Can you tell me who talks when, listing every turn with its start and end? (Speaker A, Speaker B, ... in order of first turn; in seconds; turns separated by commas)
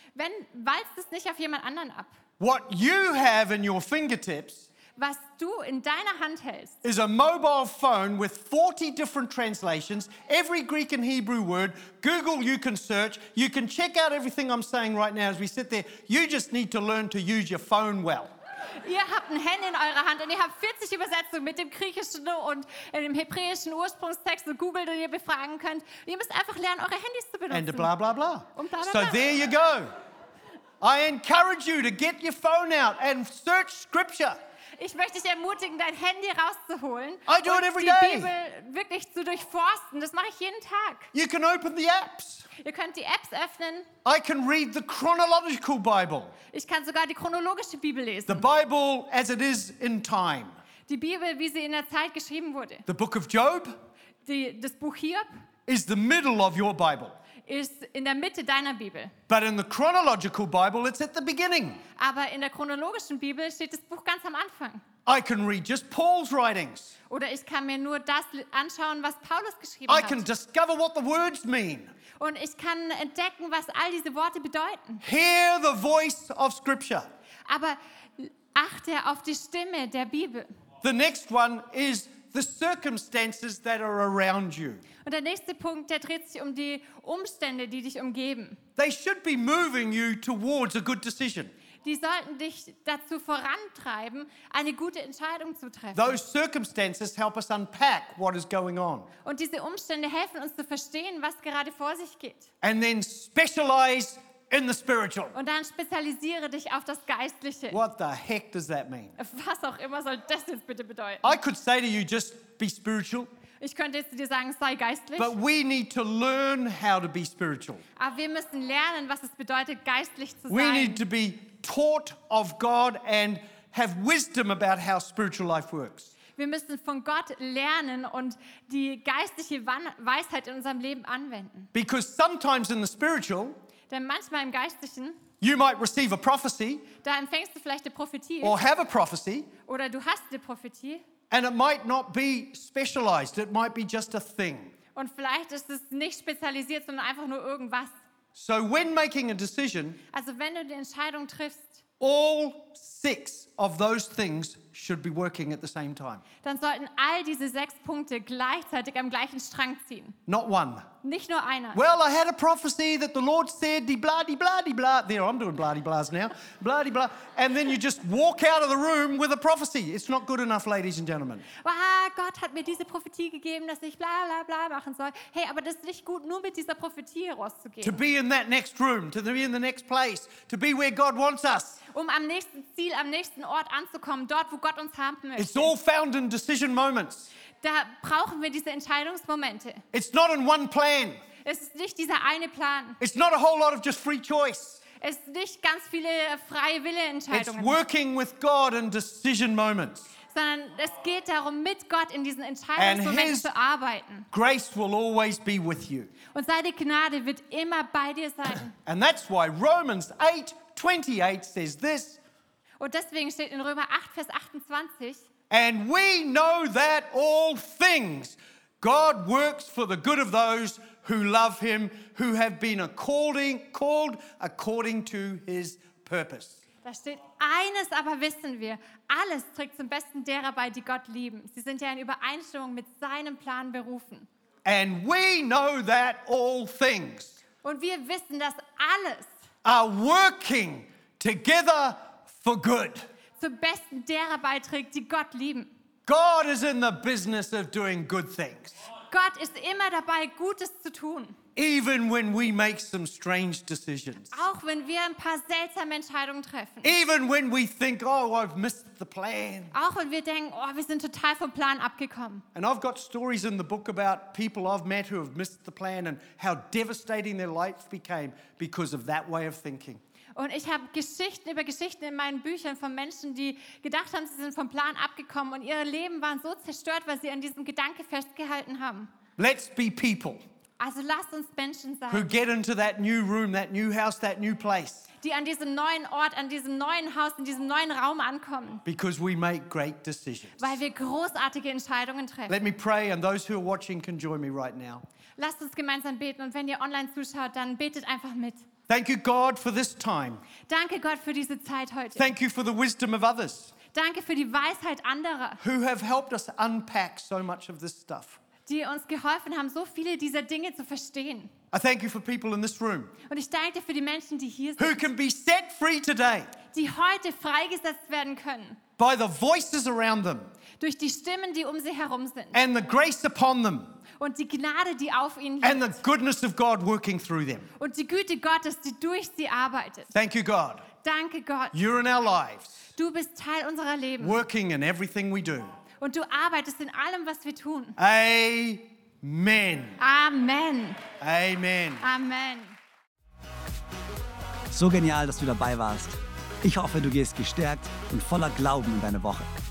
Speaker A: 0.2-2.2, Speaker B: 2.4-4.7, Speaker A: 5.0-6.8, Speaker B: 6.8-18.3, Speaker A: 18.8-27.9, Speaker B: 27.5-29.9, Speaker A: 28.6-29.2, Speaker B: 30.8-34.4, Speaker A: 34.8-41.1, Speaker B: 37.3-38.3, Speaker B: 41.1-42.5, Speaker A: 42.6-43.9, Speaker B: 44.0-46.3, Speaker A: 46.5-48.5, Speaker B: 48.3-50.6, Speaker A: 50.9-52.9, Speaker B: 52.9-53.7, Speaker A: 54.3-55.3, Speaker B: 55.7-57.2, Speaker A: 57.5-59.1, Speaker B: 59.3-61.8, Speaker A: 62.0-64.8, Speaker B: 65.1-67.0, Speaker A: 67.1-70.2, Speaker B: 69.9-71.9, Speaker A: 72.2-75.0, Speaker B: 75.0-77.1, Speaker A: 77.5-80.5, Speaker B: 80.8-84.8, Speaker A: 85.0-88.6, Speaker B: 88.8-91.5, Speaker A: 91.8-96.2, Speaker B: 96.0-99.1, Speaker A: 99.2-102.5, Speaker B: 102.6-105.4, Speaker A: 105.3-107.8, Speaker B: 107.7-109.2, Speaker A: 109.2-111.3, Speaker B: 111.2-113.3, Speaker A: 113.6-115.3, Speaker B: 115.2-117.8, Speaker A: 118.0-121.0, Speaker B: 120.5-126.1, Speaker A: 126.4-131.7, Speaker B: 131.7-133.6, Speaker A: 133.9-135.2, Speaker B: 135.4-136.9, Speaker A: 137.0-138.7, Speaker B: 138.4-139.5, Speaker A: 139.7-141.0, Speaker B: 141.3-144.7, Speaker A: 144.9-147.9, Speaker B: 148.3-150.0, Speaker A: 150.1-151.8, Speaker B: 152.0-156.2, Speaker A: 156.4-160.2, Speaker B: 160.3-160.9, Speaker A: 161.0-161.8, Speaker B: 161.7-171.4, Speaker A: 171.6-178.0, Speaker B: 177.8-181.8, Speaker A: 181.9-185.7, Speaker B: 185.4-187.3, Speaker A: 187.6-189.8, Speaker B: 189.9-191.2, Speaker A: 191.4-193.0, Speaker B: 193.0-194.8, Speaker A: 195.0-197.8, Speaker B: 197.3-200.1, Speaker A: 200.3-204.3, Speaker B: 202.8-203.5, Speaker B: 204.3-206.1, Speaker A: 206.3-208.7, Speaker B: 208.8-212.2, Speaker A: 212.8-215.3, Speaker B: 215.5-226.6, Speaker A: 226.8-234.3, Speaker B: 234.7-237.4, Speaker A: 237.6-239.3, Speaker B: 239.6-243.1, Speaker A: 243.4-245.7, Speaker B: 246.1-248.8, Speaker A: 249.1-251.4, Speaker B: 251.6-254.4, Speaker A: 254.3-257.0, Speaker B: 256.8-259.7, Speaker A: 259.7-262.4, Speaker B: 262.6-270.0, Speaker A: 270.4-279.1, Speaker B: 279.4-280.4, Speaker A: 280.8-282.3, Speaker B: 282.1-285.1, Speaker A: 285.2-288.8, Speaker B: 288.9-290.8, Speaker A: 290.6-292.6, Speaker B: 292.5-295.0, Speaker A: 295.4-298.6, Speaker B: 298.9-300.4, Speaker A: 300.7-302.3, Speaker B: 302.2-303.7, Speaker A: 303.9-305.6, Speaker B: 305.6-308.4, Speaker A: 308.7-311.5, Speaker B: 311.7-313.1, Speaker A: 313.3-315.1, Speaker B: 314.8-316.5, Speaker A: 316.7-318.8, Speaker B: 319.0-320.5, Speaker A: 320.8-322.6, Speaker B: 322.5-324.0, Speaker A: 324.2-326.0, Speaker B: 325.6-327.7, Speaker A: 327.8-330.1, Speaker B: 330.1-330.9, Speaker A: 331.0-331.8, Speaker B: 331.7-332.8, Speaker A: 332.9-334.4, Speaker B: 334.2-335.7, Speaker A: 336.0-338.0, Speaker B: 338.0-340.0, Speaker A: 340.0-341.0, Speaker B: 341.2-342.1, Speaker A: 342.0-342.8, Speaker C: 344.7-349.5